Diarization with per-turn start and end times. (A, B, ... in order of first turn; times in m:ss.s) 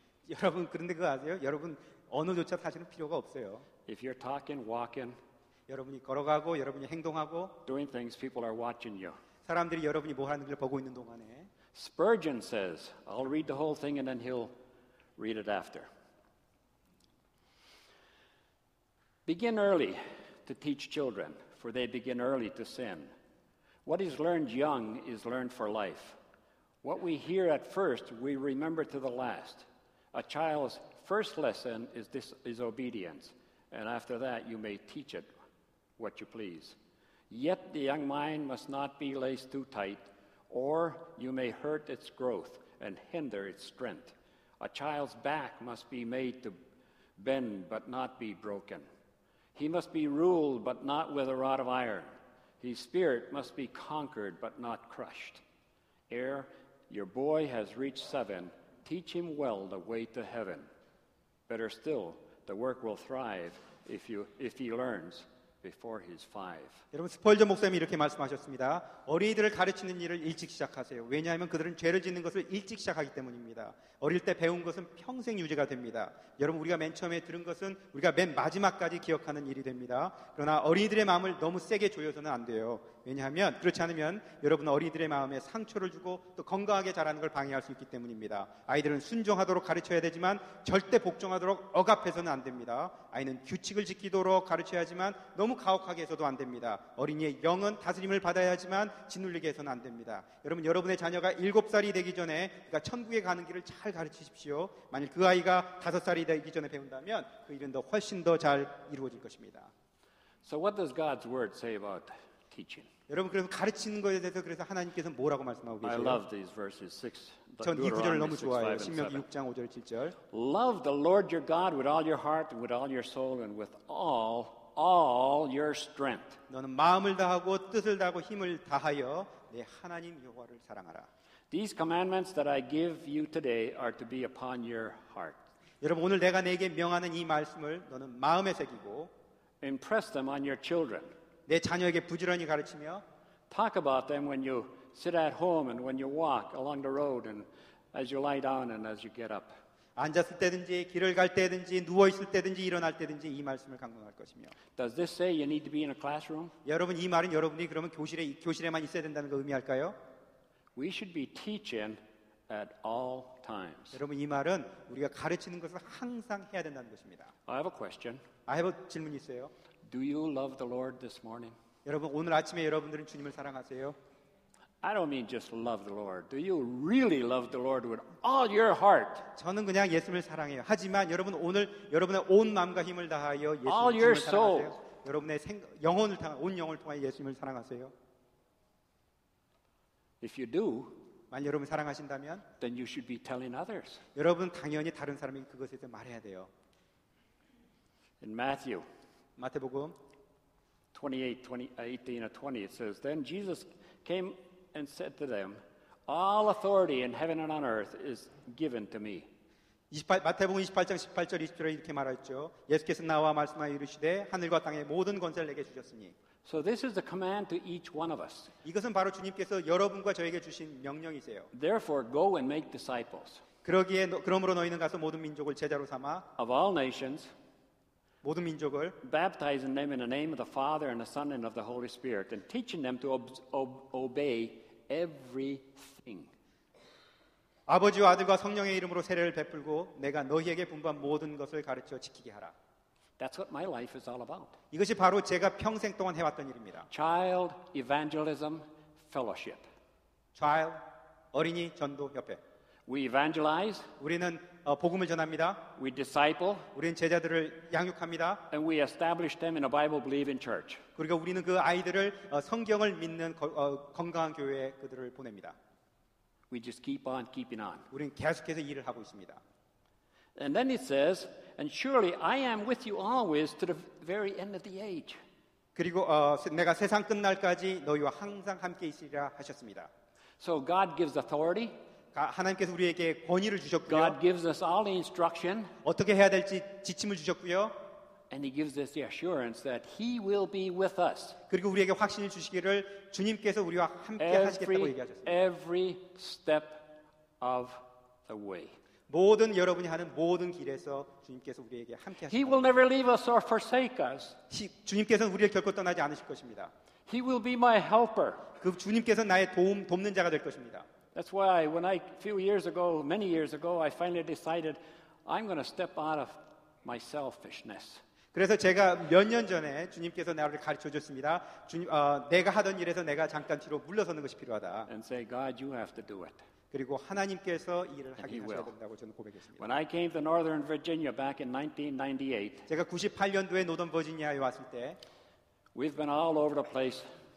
0:00.2-0:03.6 A
0:03.8-0:05.2 B
0:05.7-0:07.6 A
0:07.6-0:09.2 B
0:09.4-0:11.5 A
0:11.7-0:14.5 B
0:15.2-0:15.9 B
0:19.2-0:23.1 B
0:23.8-0:26.2 B
0:26.8-0:35.3 B
0:36.0-0:36.8 B
0:37.3-0:46.6 B
0:47.2-0:48.8 B
0:49.5-0:52.1 B
0:52.6-0:55.4 B
0:56.1-1:00.7 B
1:01.5-1:06.8 B
1:06.9-1:49.7 A
1:50.4-1:52.9 B
1:53.1-1:56.2 A
1:55.8-1:59.2 B
1:57.6-2:00.2 A
2:00.3-2:06.4 B
2:06.5-2:11.1 A
2:11.5-2:15.4 B
2:15.8-2:19.1 A
2:19.6-2:21.1 B
2:21.5-2:23.0 A
2:23.5-2:29.5 B
2:30.0-2:34.5 A
2:34.7-2:36.5 B
2:36.6-2:40.0 A
2:40.8-2:44.0 B
2:43.9-2:47.3 A
2:47.5-2:48.2 B
2:48.5-2:49.5 A
2:49.8-2:51.5 B
2:51.8-2:54.0 A
2:54.8-2:59.2 B
2:59.3-3:07.9 A
3:03.6-3:04.7 B
3:10.2-3:11.0 B
3:11.3-3:12.4 A
3:12.6-3:14.0 B
3:14.2-3:16.5 A
3:18.2-3:18.8 B
3:19.4-3:20.0 A
3:20.9-3:29.3 B
3:29.9-3:36.1 A
3:36.4-3:38.5 B
3:38.6-3:41.5 A
3:41.5-3:43.4 B
3:43.6-3:46.2 A
3:46.4-3:47.3 B
3:48.2-3:49.0 A
3:49.0-3:56.3 B
3:57.7-4:02.5 A
4:03.2-4:04.5 B
4:04.7-4:06.9 A
4:06.9-4:09.7 B
4:10.4-4:12.4 A
4:12.9-4:13.9 B
4:14.0-4:15.6 A
4:15.8-4:16.7 B
4:16.7-4:18.4 A
4:18.5-4:20.8 B
4:21.0-4:25.6 A
4:26.5-4:27.9 B
4:27.9-4:29.4 A
4:30.4-4:35.2 B
4:35.7-4:39.9 A
4:40.4-4:41.7 B
4:42.1-4:44.2 A
4:43.9-4:45.7 B
4:45.8-4:47.7 A
4:48.3-4:51.4 B
4:51.5-4:55.4 A
4:54.2-4:58.7 B
4:59.1-5:02.8 A
5:02.3-5:04.4 B
5:04.5-5:06.7 A
5:07.1-5:08.5 B
5:08.6-5:10.8 A
5:11.1-5:18.0 B
5:18.3-5:24.9 A
5:24.9-5:26.4 B
5:26.7-5:29.7 A
5:28.2-5:28.7 B
5:29.6-5:32.7 B
5:32.7-5:35.0 A
5:35.7-5:37.0 B